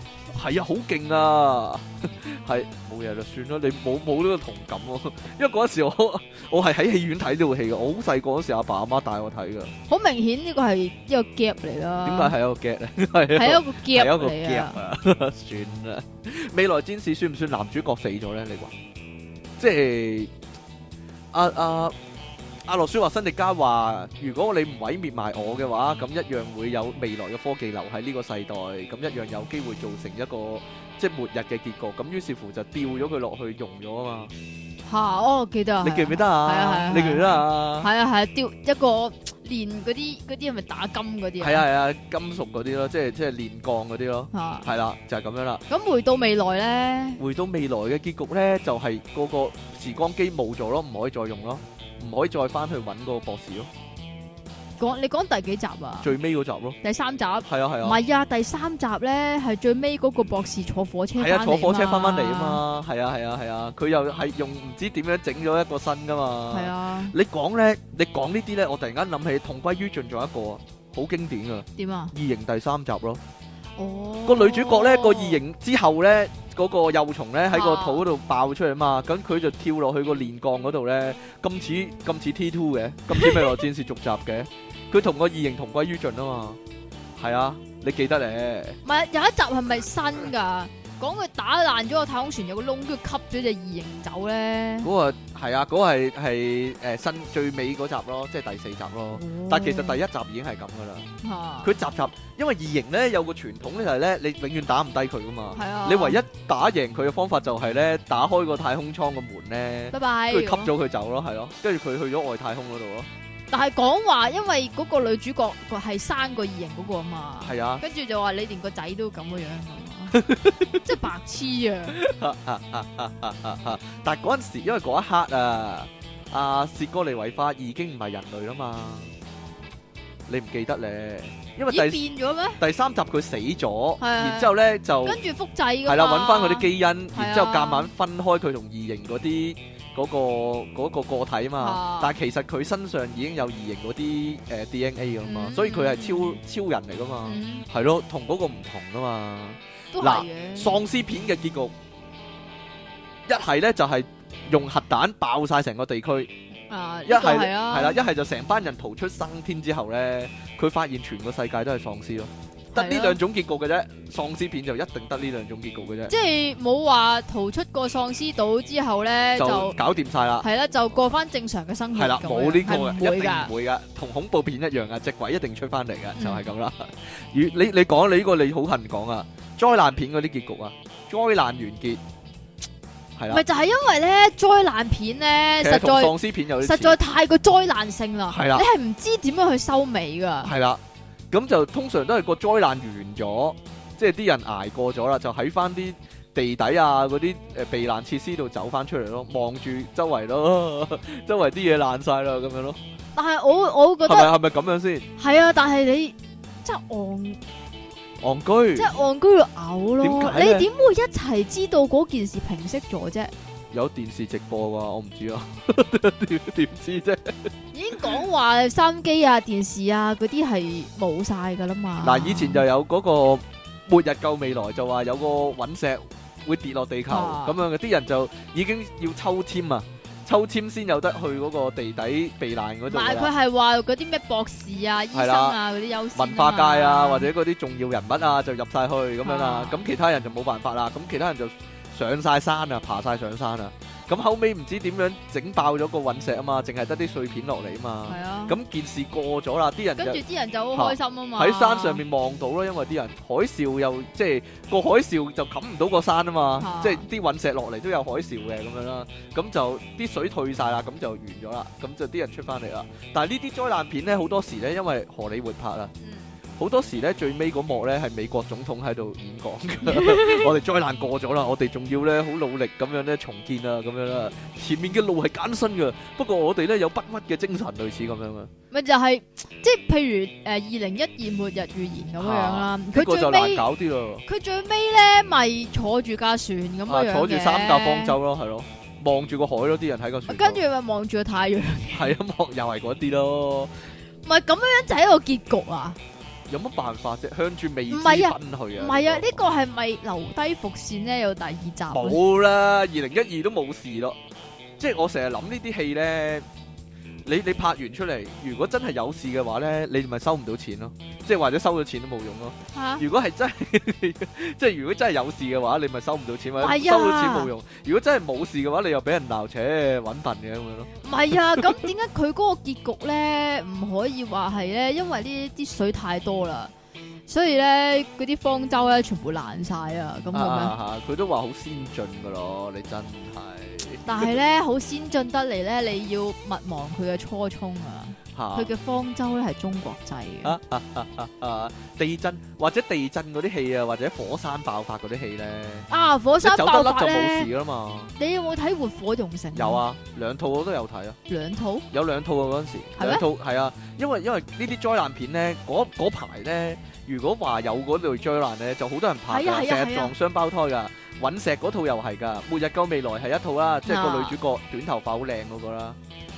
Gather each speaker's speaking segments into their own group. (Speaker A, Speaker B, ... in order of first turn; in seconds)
Speaker A: 0.3-9.7, 12.1-18.7, 19.6-20.3, 21.3-21.9, 22.7-34.3, 35.8-37.9, 41.4-45.6, 47.2-53.7, 56.0-56.8, 57.5-58.0, 61.2-73.2, 74.3-86.6, 87.2-88.8, 94.8-101.1, 101.6-113.1, 117.4-117.8, 120.1-120.8, 121.9-129.1, 130.3-132.0, 132.6-135.2, 135.9-151.7, 153.3-156.3, 157.1-166.1, 169.4-170.5, 171.9-182.0, 183.2-183.4, 185.6-187.0, 188.3-188.7, 190.4-202.8, 204.1-205.1, 208.2-208.9, 210.0-210.7, 213.7-217.5, 222.0-233.3, 235.1-235.6, 236.2-250.2, 250.7-265.9, 266.6-278.5, 282.2-284.2, 286.9-290.6, 291.9-293.7, 296.5-299.4, 301.9-304.2, 304.8-306.5, 307.2-321.8, 330.3-334.3, 338.4-338.7, 340.4-345.9, 346.4-348.1, 349.6-351.2, 351.9-366.0
Speaker B: 9.9-12.3, 13.3-14.8, 34.9-41.6, 44.3-44.7, 45.7-47.2, 54.8-56.1, 56.8-62.6, 66.5-67.1, 71.8-72.1, 73.8-75.4, 77.5-78.0, 83.1-83.6, 88.8-94.9, 99.1-100.0, 101.2-101.7, 105.5-106.2, 109.9-110.7, 113.5-120.2, 120.8-122.0, 131.7-132.6, 134.0-134.5, 135.0-137.9, 141.6-142.1, 145.2-146.4, 147.2-147.7, 149.9-150.8, 156.7-158.0, 162.7-163.2, 166.1-169.8, 170.4-173.5, 176.2-176.5, 183.3-190.5, 203.2-204.3, 205.2-207.4, 208.8-213.3, 217.7-222.6, 227.1-227.6, 232.9-237.3, 239.2-239.8, 248.1-248.6, 250.0-252.0, 256.6-257.1, 266.0-266.4, 269.9-270.5, 278.7-283.7, 284.3-288.2, 290.3-292.1, 294.2-296.0, 297.9-302.2, 312.7-313.0, 316.6-317.5, 321.0-326.7, 327.3-330.8, 334.1-340.6, 345.9-347.5, 348.2-349.8, 351.3-351.9, 353.0-353.3, 359.3-360.1, 363.9-364.4